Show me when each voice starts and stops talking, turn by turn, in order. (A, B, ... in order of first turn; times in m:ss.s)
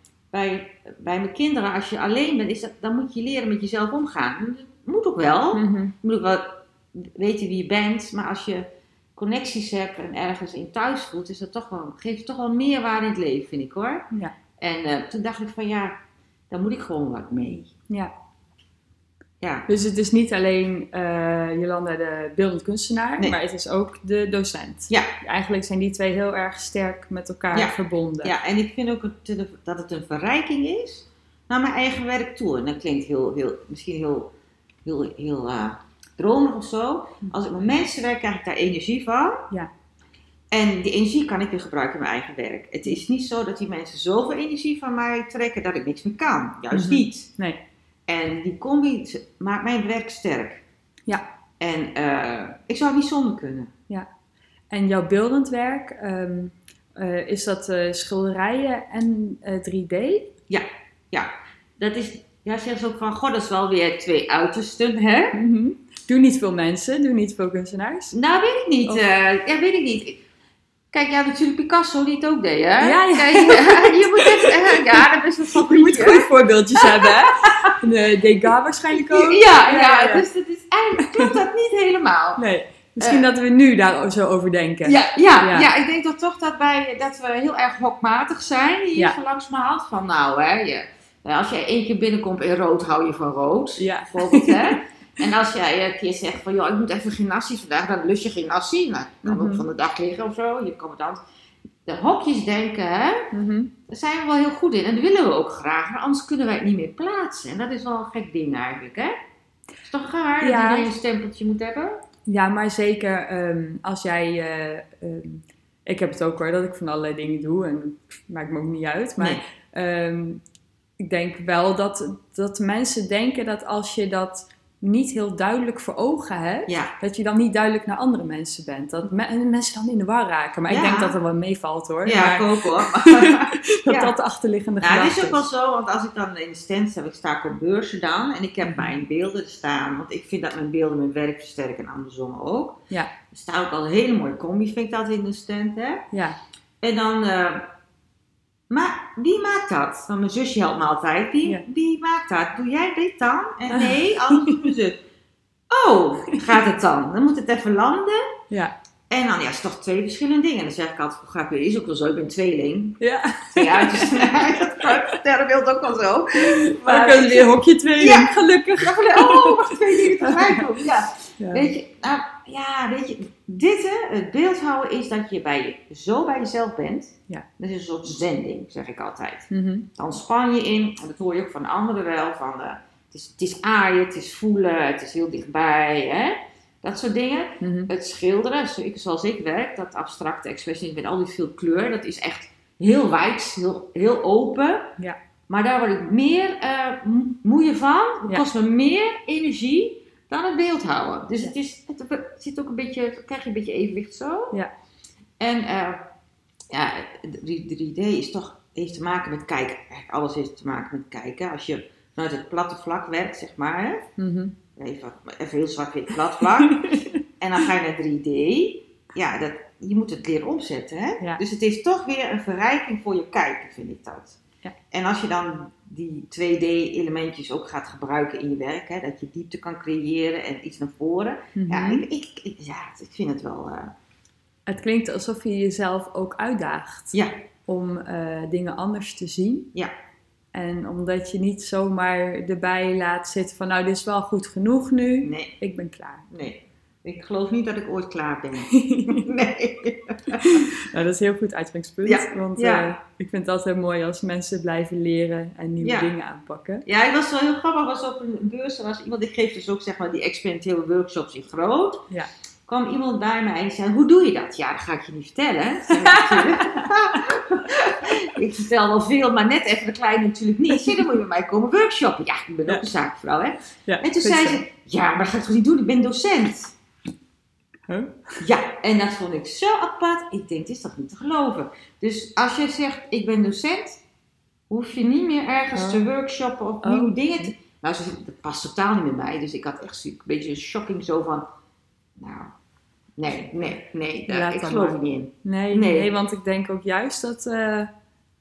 0:00.3-0:17.7 A
0:05.5-0:05.9 B
0:19.4-0:19.7 A
0:19.7-0:28.3 B
0:27.5-0:34.3 A
0:34.8-0:39.5 A
0:40.5-0:47.3 A
0:46.7-0:47.6 B
0:48.1-0:50.6 A
0:51.6-0:53.7 A
0:54.7-1:00.3 B
1:00.5-1:05.3 A
1:05.3-1:08.2 B
1:08.1-1:10.2 A
1:10.9-1:17.8 A
1:12.8-1:20.2 B
1:18.9-1:22.4 A
1:21.0-1:21.3 B
1:22.4-1:25.7 B
1:23.0-1:23.2 A
1:24.8-1:41.2 A
1:33.8-1:34.8 B
1:39.2-1:39.6 B
1:41.8-1:43.3 A
1:43.3-1:43.7 B
1:43.9-1:49.2 A
1:49.8-1:52.0 A
1:50.4-1:50.9 B
1:52.3-2:00.4 B
2:01.0-2:15.4 B
2:06.7-2:06.9 A
2:10.7-2:11.2 A
2:12.0-2:14.1 A
2:14.8-2:26.1 A
2:26.1-2:26.4 B
2:26.8-2:27.7 A
2:28.7-2:35.0 A
2:33.7-2:34.6 B
2:35.7-2:38.2 A
2:39.1-2:43.0 A
2:43.0-2:44.6 B
2:43.5-3:15.0 A
2:46.4-2:50.7 B
2:51.4-2:51.7 B
2:59.5-2:59.9 B
3:07.6-3:07.9 B
3:15.5-3:24.5 A
3:25.4-3:26.0 A
3:26.7-3:34.1 A
3:34.2-3:34.5 B
3:34.7-3:53.9 A
3:36.6-3:37.2 B
3:51.5-3:52.0 B
3:54.7-3:57.2 B
3:57.7-3:59.7 B
4:00.5-4:06.3 B
4:05.2-4:05.5 A
4:06.3-4:10.8 A
4:08.7-4:09.3 B
4:10.3-4:16.8 B
4:12.0-4:12.9 A
4:15.8-4:16.1 A
4:16.8-4:22.1 A
4:22.7-4:36.8 A
4:25.9-4:26.9 B
4:33.9-4:34.6 B
4:37.9-4:38.4 B
4:38.4-4:44.0 A
4:44.7-4:51.4 A
4:45.8-4:46.1 B
4:46.8-4:47.5 B
4:52.2-4:52.5 A
4:53.2-4:56.1 A
4:54.3-4:57.9 B